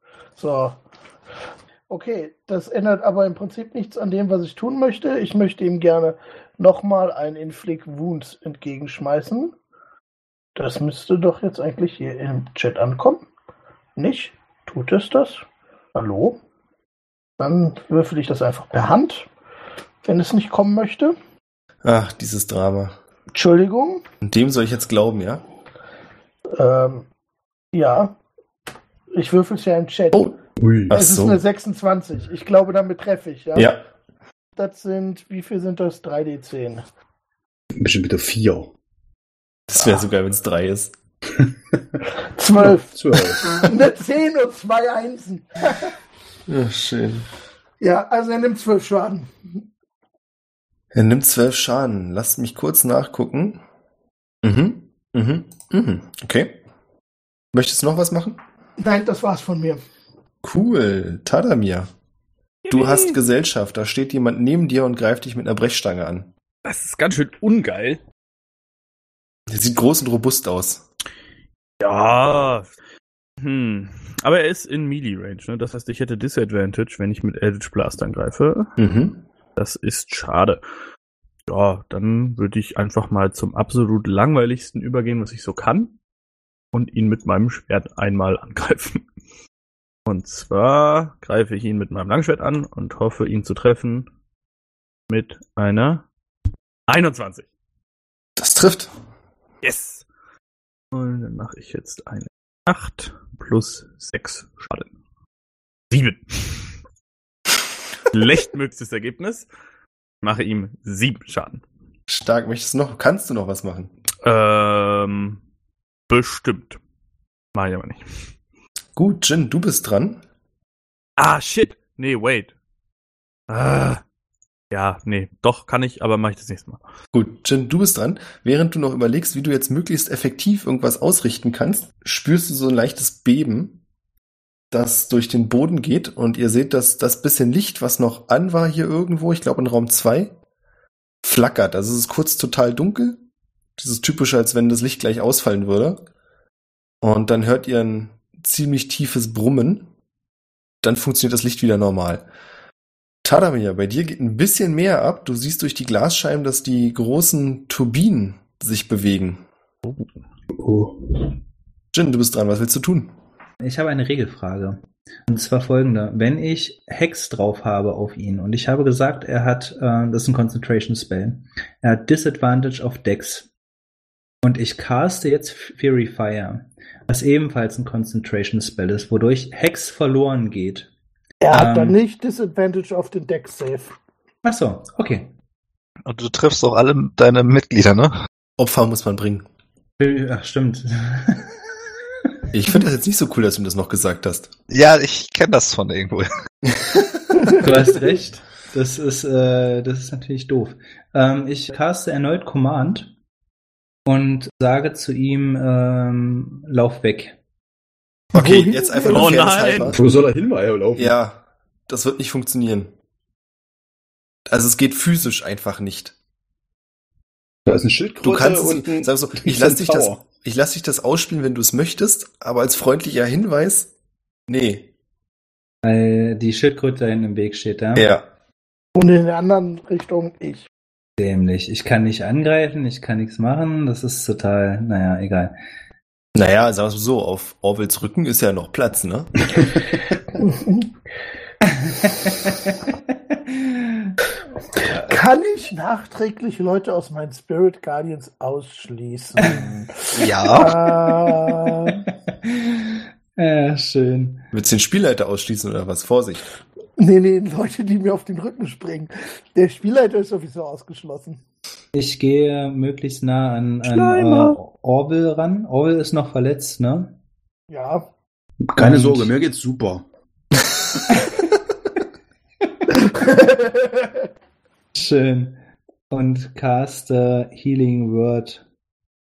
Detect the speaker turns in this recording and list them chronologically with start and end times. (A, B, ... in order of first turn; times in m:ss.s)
0:00.4-0:00.8 A
0:01.9-0:09.5 A
0:10.6-0:13.2 A
0:14.0-0:15.4 A
0:15.9-0:16.4 A
0:17.4-0:19.3 A
0:20.0-0:21.2 A
0:21.8-0:23.0 B
0:23.3-0:24.0 A
0:24.2-0:25.4 B
0:26.5-0:27.1 A
0:27.7-0:28.2 A
0:29.1-0:30.3 A
0:30.6-0:30.9 C
0:30.9-0:31.4 B
0:30.9-0:33.7 A
0:33.5-0:33.8 B
0:34.6-0:36.8 A
0:37.7-0:38.7 C
0:39.7-0:40.9 B
0:41.4-0:42.0 C
0:42.3-0:45.9 A
0:42.6-0:43.6 C
0:46.5-0:47.2 B
0:47.8-0:49.6 A
0:50.9-0:53.6 B
0:54.4-0:56.6 B
0:57.5-0:58.4 B
0:58.8-0:59.8 A
1:00.4-1:01.9 B
1:02.6-1:03.2 D
1:02.7-1:06.3 B
1:06.6-1:08.0 D
1:09.5-1:10.8 B
1:11.8-1:12.7 D
1:13.4-1:18.7 D
1:18.8-1:19.2 B
1:19.6-1:20.6 D
1:21.5-1:25.9 D
1:26.7-1:29.0 D
1:30.0-1:34.1 D
1:35.1-1:36.0 D
1:36.9-1:37.4 D
1:38.4-1:38.9 B
1:39.6-1:40.0 D
1:40.9-1:44.9 D
1:45.9-1:46.7 D
1:48.1-1:49.5 D
1:50.2-1:51.6 D
1:52.1-1:53.9 B
1:54.2-1:55.4 D
1:56.1-1:56.8 D
1:57.5-1:58.0 D
1:59.0-2:00.2 B
2:01.2-2:02.5 D
2:03.5-2:04.0 D
2:04.7-2:06.8 D
2:07.1-2:13.8 B
2:14.7-2:20.3 B
2:21.2-2:23.2 B
2:23.8-2:26.0 B
2:27.0-2:29.9 B
2:30.8-2:32.3 B
2:33.2-2:39.4 B
2:40.6-2:41.3 C
2:41.9-2:43.1 B
2:43.6-2:53.5 E
2:54.4-3:00.9 E
3:01.4-3:03.9 A
3:01.5-3:02.0 E
3:04.4-3:05.3 E
3:06.0-3:08.1 F
3:08.6-3:09.4 B
3:10.0-3:11.5 E
3:12.5-3:14.5 B
3:14.7-3:16.3 F
3:17.4-3:17.7 A
3:17.5-3:23.1 E
3:24.0-3:27.4 E
3:28.3-3:30.0 B
3:28.4-3:29.7 A
3:29.0-3:30.0 D
3:29.9-3:31.1 C
3:30.9-3:32.9 B
3:34.5-3:36.1 B
3:37.6-3:40.2 C
3:38.2-3:43.9 B
3:44.5-3:44.9 B
3:45.8-3:48.2 E
3:47.9-3:48.2 B
3:48.9-3:50.7 A
3:51.2-3:55.6 E
3:56.3-3:59.4 B
3:59.5-4:00.0 C
4:00.4-4:00.9 A
4:01.6-4:04.2 E
4:04.8-4:12.0 A
4:09.4-4:09.6 E
4:10.1-4:10.8 F
4:11.7-4:14.4 E
4:14.5-4:16.4 B
4:17.0-4:21.4 A
4:21.9-4:27.1 E
4:23.9-4:24.5 D
4:27.7-4:28.1 A
4:28.6-4:30.0 C
4:28.8-4:29.3 E
4:31.1-4:31.5 E
4:33.0-4:34.2 A
4:34.9-4:35.6 E
4:36.1-4:38.6 E